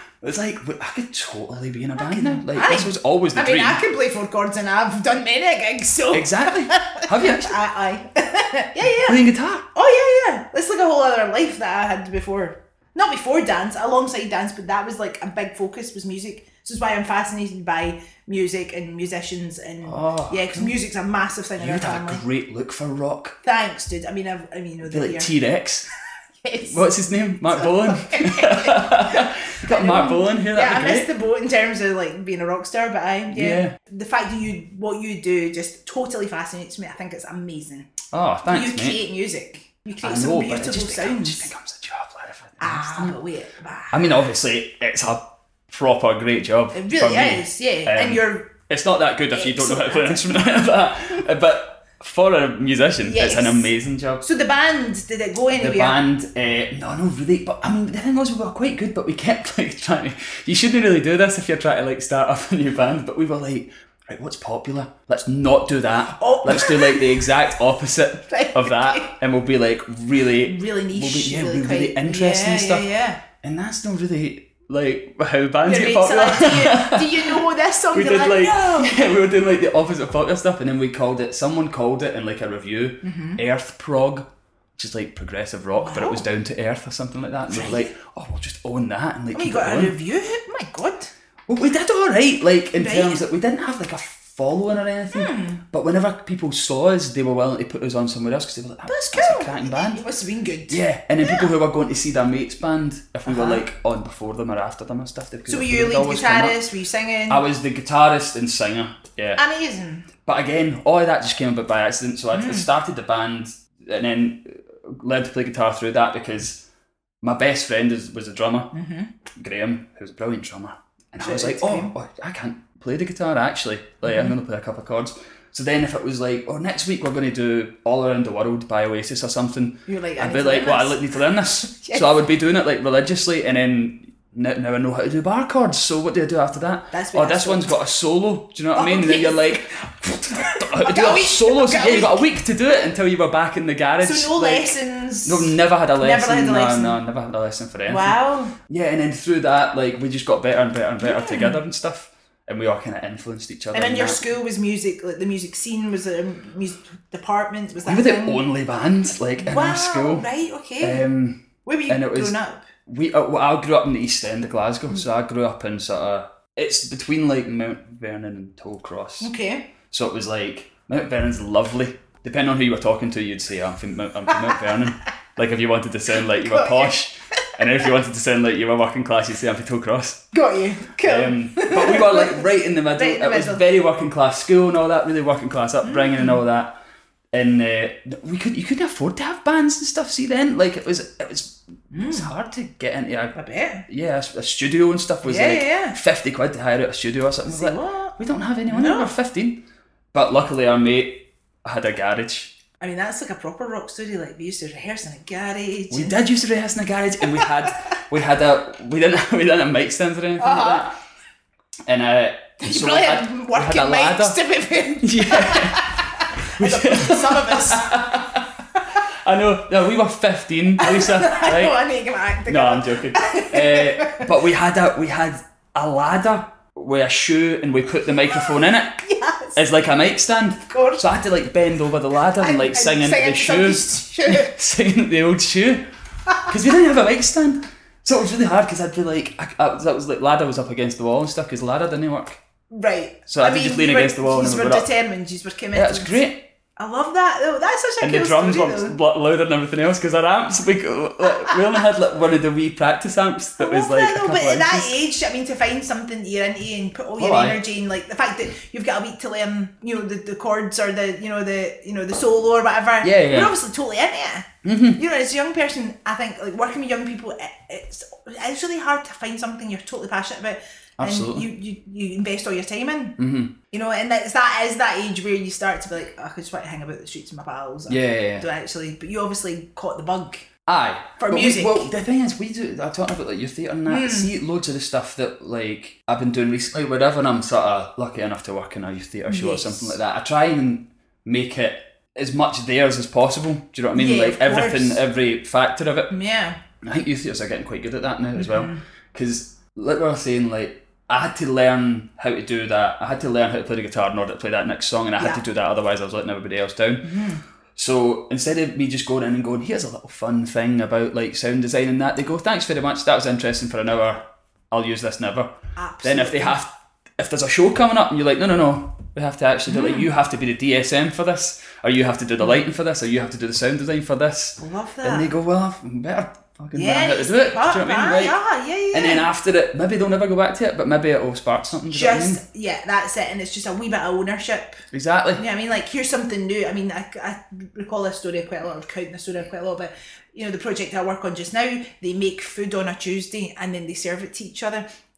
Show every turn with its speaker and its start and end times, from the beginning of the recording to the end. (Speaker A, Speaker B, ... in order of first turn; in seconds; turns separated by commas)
Speaker A: 0.2-3.8, Speaker B: 2.0-9.2, Speaker A: 6.1-7.6, Speaker A: 9.1-9.7, Speaker B: 9.7-22.2, Speaker A: 19.8-20.8, Speaker A: 21.6-23.4, Speaker B: 23.4-25.3, Speaker A: 24.8-25.9, Speaker B: 26.4-26.9, Speaker A: 26.6-31.1, Speaker B: 27.5-37.9, Speaker A: 33.3-33.8, Speaker A: 38.1-39.0, Speaker B: 38.5-41.5, Speaker A: 40.0-43.2, Speaker B: 42.6-44.2, Speaker A: 43.9-54.2, Speaker B: 46.7-48.5, Speaker B: 49.3-50.5, Speaker B: 53.0-56.0, Speaker A: 55.5-90.0, Speaker B: 66.1-67.3, Speaker B: 68.3-69.2, Speaker B: 70.4-73.2, Speaker B: 75.6-79.2, Speaker B: 83.0-83.4, Speaker B: 85.8-86.3, Speaker B: 87.5-87.9, Speaker B: 89.3-91.1, Speaker A: 91.5-100.0, Speaker B: 92.8-93.2, Speaker B: 95.1-95.6, Speaker B: 98.9-101.5, Speaker A: 100.7-106.6, Speaker B: 103.3-103.6, Speaker B: 105.5-107.4, Speaker A: 107.3-109.4, Speaker B: 109.4-110.1, Speaker A: 110.2-116.6, Speaker B: 112.3-112.7, Speaker A: 117.2-118.7, Speaker B: 118.7-119.1, Speaker A: 119.4-154.2, Speaker B: 121.2-121.9, Speaker B: 124.0-124.3, Speaker B: 129.9-132.1, Speaker B: 136.9-137.7, Speaker B: 138.7-139.8, Speaker B: 140.3-142.3, Speaker B: 144.0-147.0, Speaker B: 147.9-148.6, Speaker B: 151.0-151.6, Speaker B: 153.7-158.4, Speaker A: 157.8-160.3, Speaker B: 159.4-161.0, Speaker A: 160.8-169.3, Speaker B: 161.7-162.7, Speaker B: 169.2-169.7, Speaker A: 169.9-180.2, Speaker B: 174.3-174.6, Speaker B: 176.3-176.9, Speaker B: 180.3-183.6, Speaker A: 181.0-186.8, Speaker B: 185.8-186.4, Speaker A: 187.3-193.3, Speaker B: 191.9-192.3, Speaker B: 193.3-193.9, Speaker A: 193.9-202.5, Speaker B: 195.2-196.0, Speaker B: 197.5-199.1, Speaker B: 202.8-206.2, Speaker A: 205.9-210.9, Speaker B: 207.2-207.7, Speaker B: 210.4-210.9, Speaker A: 211.9-218.5, Speaker B: 212.6-218.2, Speaker A: 219.0-221.8, Speaker B: 220.8-224.3, Speaker A: 222.5-235.9, Speaker B: 228.3-229.6, Speaker B: 230.7-231.1, Speaker B: 232.4-234.6, Speaker A: 236.5-242.4, Speaker B: 242.7-246.3, Speaker A: 243.3-244.9, Speaker A: 245.7-246.5, Speaker B: 246.8-249.0, Speaker A: 248.0-255.0, Speaker B: 253.6-273.2, Speaker A: 257.2-257.6, Speaker A: 263.0-263.6, Speaker A: 264.6-265.0, Speaker A: 271.0-271.5, Speaker A: 273.2-273.6, Speaker B: 273.7-280.4, Speaker A: 277.9-278.5, Speaker A: 280.7-296.1, Speaker B: 281.2-281.9, Speaker B: 283.9-284.3, Speaker B: 289.3-290.0, Speaker B: 293.9-295.0, Speaker B: 296.1-296.6, Speaker A: 296.8-307.2, Speaker B: 298.4-298.8, Speaker B: 307.0-307.4, Speaker A: 307.8-315.5, Speaker B: 315.8-316.6, Speaker A: 316.0-328.4, Speaker B: 319.7-320.1, Speaker B: 324.6-325.3, Speaker B: 326.7-329.3, Speaker A: 328.9-332.4, Speaker B: 331.9-334.8, Speaker A: 334.9-335.4, Speaker B: 335.4-344.9